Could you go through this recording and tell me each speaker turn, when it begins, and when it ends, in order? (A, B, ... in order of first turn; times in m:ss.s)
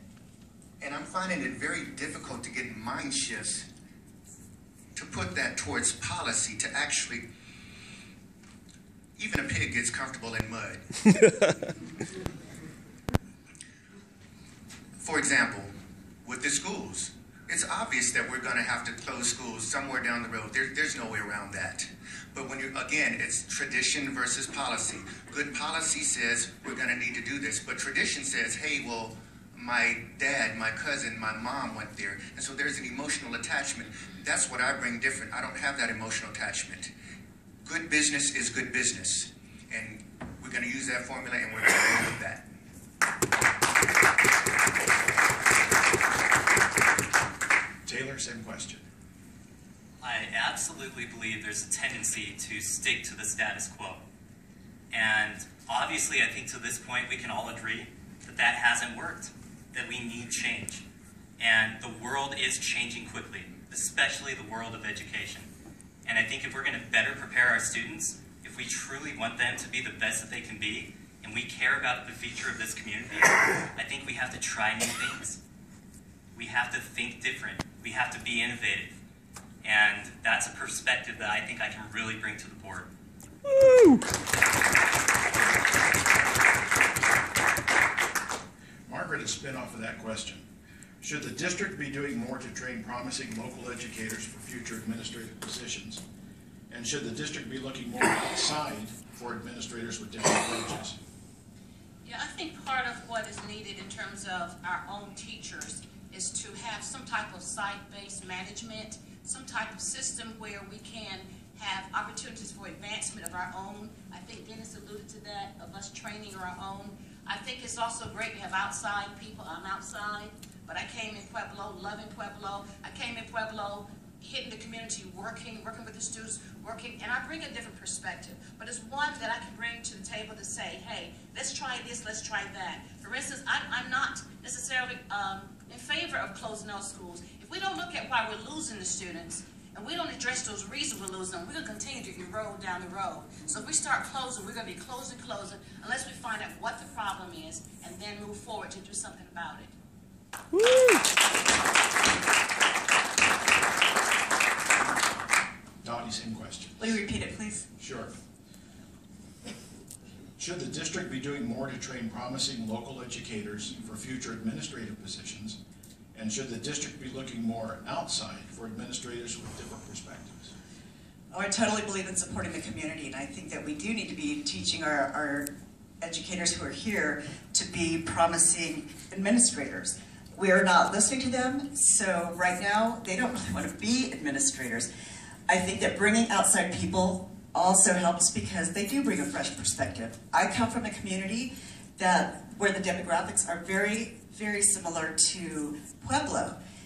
0:00.8-0:03.6 A
0:04.9-0:07.2 A
0:09.2-0:11.0 A
0:15.0-0:15.7 A
0:16.2-0:36.9 A
0:37.6-0:42.4 A
0:47.8-0:48.8 B
0:50.0-0:54.0 C
0:54.9-1:00.8 C
1:01.4-1:05.5 C
1:06.0-1:15.4 C
1:16.3-1:19.0 C
1:19.6-1:22.9 C
1:28.9-1:30.4 B
1:31.0-1:36.0 B
1:36.7-1:41.0 B
1:42.0-2:29.7 D
2:35.8-2:36.9 B
2:36.8-2:37.6 E
2:37.8-2:38.1 B
2:40.4-2:45.6 B
2:46.1-2:50.5 B
2:51.3-2:55.5 E
2:56.0-3:04.9 E
3:05.5-3:16.6 E